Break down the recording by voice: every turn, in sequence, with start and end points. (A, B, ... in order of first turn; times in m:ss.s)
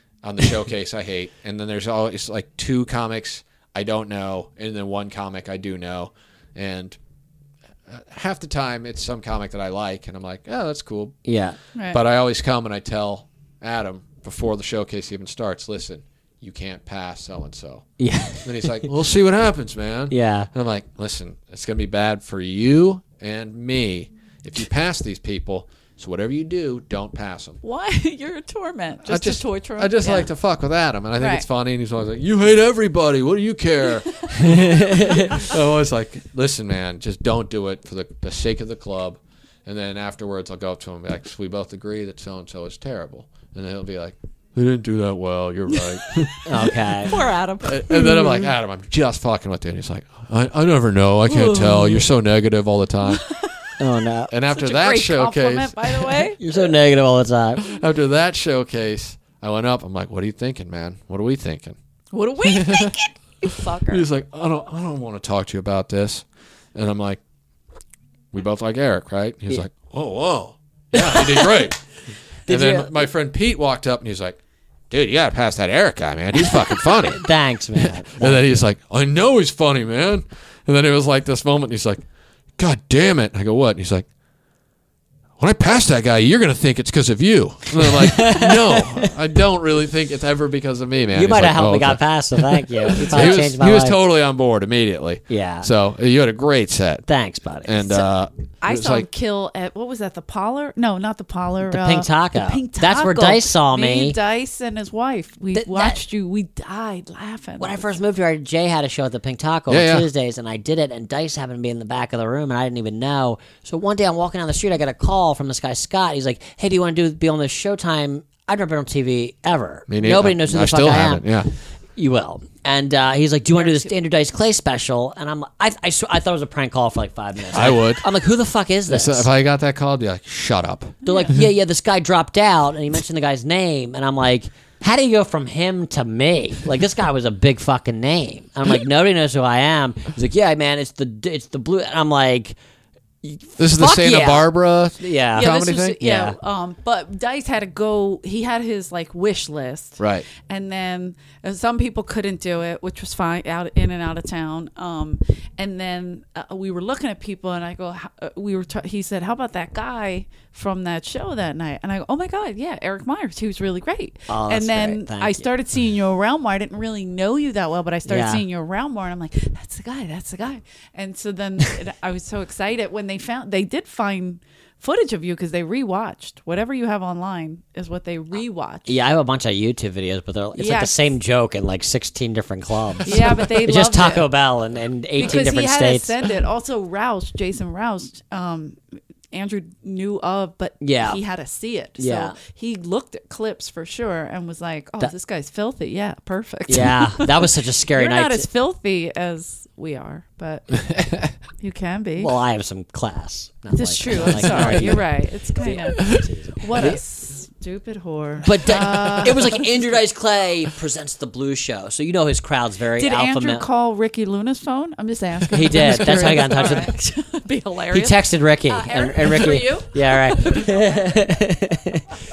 0:00.2-0:07.0 A
0:07.9-0:11.2 A
0:11.2-0:11.6 B
0:11.8-0:12.0 C
0:11.9-0:17.9 A
0:18.0-0:18.9 B
0:18.4-0:27.6 A
0:20.1-0:20.5 B
0:27.6-0:30.3 C
0:29.0-0:46.7 A
0:31.2-0:31.4 C
0:34.9-0:35.2 B
0:46.4-0:47.1 B
0:47.0-0:48.5 C
0:47.6-0:53.2 A
0:51.3-0:52.0 C
0:53.0-0:53.5 C
0:53.8-0:54.3 B
0:54.3-0:56.3 A
0:54.5-0:56.4 C
0:56.4-0:57.6 B
0:57.6-1:01.8 A
1:02.1-1:04.0 C
1:02.4-1:03.0 A
1:03.9-1:07.2 A
1:08.3-1:11.8 A
1:10.9-1:11.5 B
1:12.5-1:12.9 B
1:12.5-1:14.4 A
1:14.9-1:17.2 A
1:17.0-1:18.5 B
1:17.8-1:22.0 A
1:22.6-1:24.1 A
1:25.4-1:37.0 A
1:27.8-1:29.1 B
1:31.1-1:34.0 B
1:35.3-1:35.7 B
1:37.1-1:38.0 B
1:37.6-1:39.1 A
1:38.6-1:47.9 C
1:41.7-1:44.2 B
1:45.5-1:46.0 B
1:47.6-2:01.2 B
1:49.7-1:50.0 A
1:59.9-2:01.5 A
2:02.0-2:09.3 B
2:03.5-2:03.9 C
2:07.5-2:08.0 A
2:08.9-2:11.0 A
2:11.0-2:11.4 C
2:11.0-2:22.6 B
2:23.2-2:24.5 B
2:23.6-2:26.0 A
2:25.0-2:26.3 B
2:25.3-2:58.9 C
2:30.0-2:30.2 A
2:44.3-2:45.5 B
2:48.0-2:48.4 B
2:58.9-3:06.2 B
3:00.5-3:01.1 C
3:03.0-3:03.3 A
3:03.0-3:04.3 C
3:05.2-3:08.8 C
3:09.3-3:20.8 C
3:10.8-3:11.2 B
3:12.0-3:12.4 B
3:16.7-3:18.5 B
3:20.8-3:21.3 A
3:21.6-3:22.3 C
3:22.2-3:25.0 B
3:23.7-3:29.6 C
3:24.2-3:25.0 A
3:25.6-3:27.0 B
3:28.4-3:33.6 B
3:33.0-3:41.0 C
3:35.5-3:36.9 B
3:37.9-3:42.0 B